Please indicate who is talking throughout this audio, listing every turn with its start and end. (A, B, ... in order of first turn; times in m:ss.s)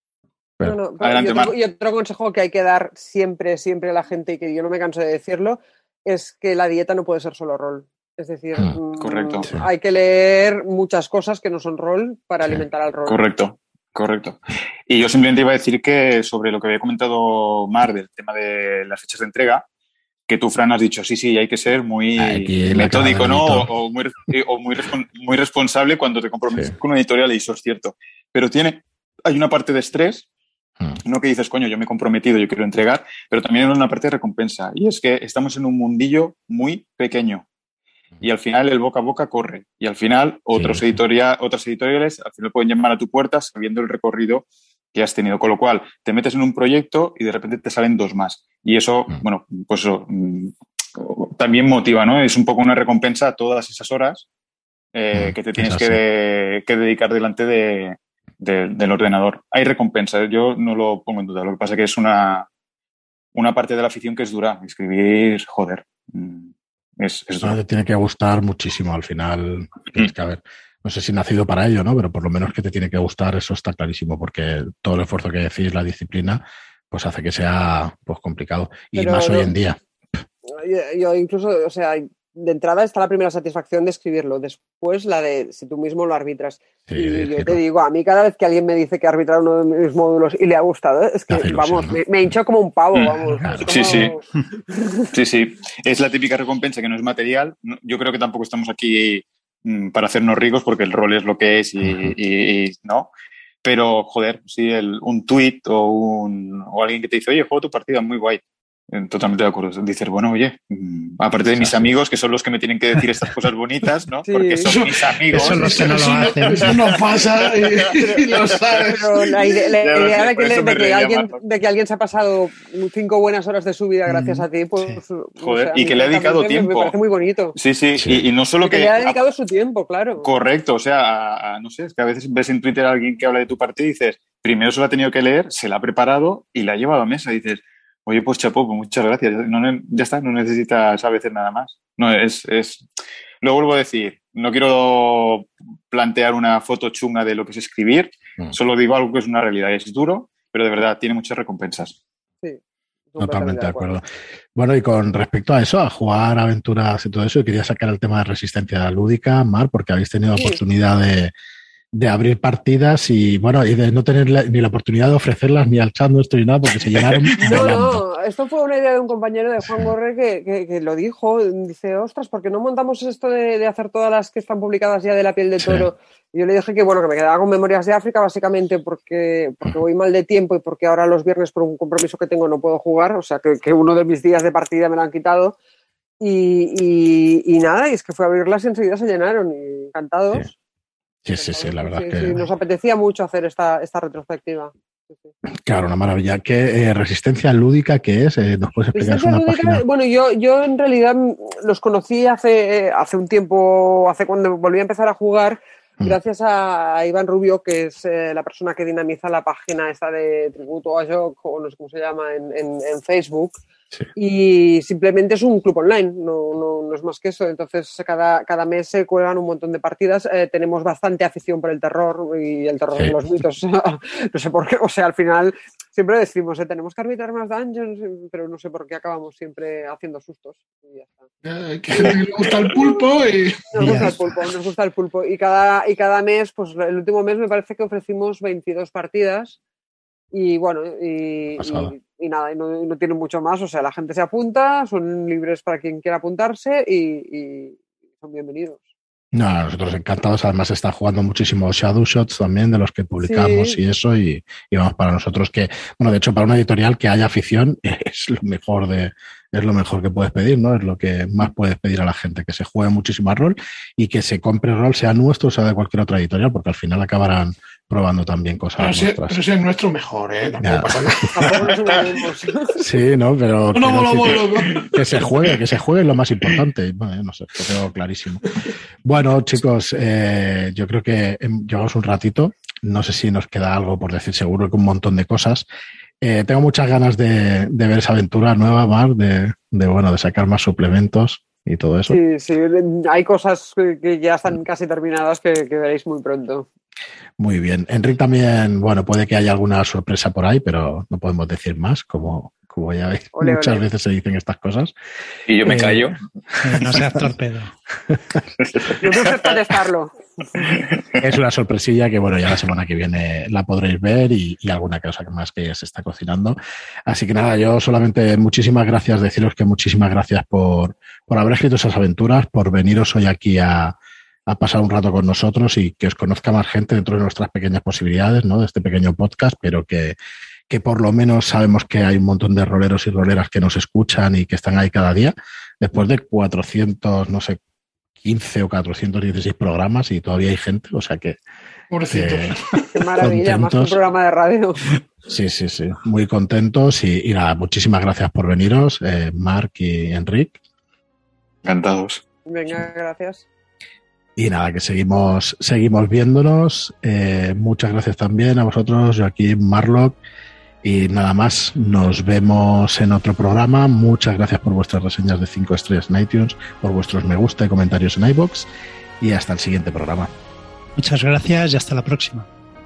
0:00.6-0:13.2 A
0:01.0-0:01.5 B
0:09.0-0:09.5 B
0:13.1-0:19.6 B
0:20.3-0:30.3 B
0:22.2-0:23.7 C
0:31.0-0:37.5 B
0:38.2-0:54.3 B
0:40.5-0:41.0 C
0:54.9-1:02.5 B
0:55.1-0:56.0 C
1:03.4-1:07.6 B
1:07.4-1:19.8 C
1:19.0-1:19.5 A
1:20.5-1:35.1 A
1:26.9-1:27.6 C
1:31.3-1:32.0 C
1:33.4-1:33.8 C
1:33.6-1:34.1 B
1:35.1-1:43.1 B
1:41.8-1:42.1 C
1:43.6-1:56.8 B
1:51.6-1:51.9 C
1:54.3-1:54.7 A
1:54.7-1:59.2 D
1:55.3-1:56.8 E
1:56.1-1:56.3 C
1:57.6-1:58.8 B
1:58.7-2:07.6 A
1:59.8-2:01.4 B
2:04.1-2:05.0 E
2:05.4-2:06.9 B
2:07.6-2:09.2 B
2:08.0-2:08.2 C
2:08.6-2:10.3 A
2:10.2-2:22.8 B
2:23.4-2:32.0 B
2:33.1-2:34.0 A
2:33.2-2:34.0 C
2:34.6-2:41.3 C
2:41.9-2:48.0 C
2:47.0-2:47.4 B
2:47.4-3:05.6 A
2:49.7-2:49.9 C
2:55.6-2:55.9 C
3:06.2-3:10.5 A
3:11.2-3:12.4 C
3:11.3-3:15.3 A
3:15.7-3:19.8 C
3:19.0-3:33.6 A
3:34.2-3:51.3 A
3:51.4-3:54.0 D
3:53.7-3:59.6 A
3:53.8-3:54.1 E
4:00.3-4:08.9 A
4:01.6-4:01.9 C
4:09.3-4:29.4 C
4:13.2-4:13.8 A
4:28.8-4:31.7 D
4:30.6-4:30.9 C
4:31.3-4:32.8 A
4:32.8-4:38.5 C
4:33.8-4:34.9 D
4:39.0-4:45.6 C
4:46.2-4:52.2 C
4:52.1-4:56.7 A
4:57.4-5:04.9 C
5:03.4-5:03.8 A
5:05.5-5:06.2 B
5:05.6-5:06.1 C
5:06.6-5:07.7 E
5:06.7-5:07.3 C
5:08.7-5:09.4 B
5:09.0-5:10.7 A
5:10.6-5:11.2 B
5:11.2-5:24.0 C
5:24.5-5:30.2 C
5:30.7-5:37.6 C
5:38.2-5:41.4 C
5:41.9-5:42.9 D
5:42.1-5:42.6 C
5:42.9-5:44.9 A
5:43.2-5:44.0 C
5:45.3-5:50.6 C
5:51.6-5:52.2 B
5:52.5-5:53.5 A
5:54.4-6:00.2 C
6:00.8-6:08.7 C
6:09.2-6:10.3 C
6:11.0-6:12.5 E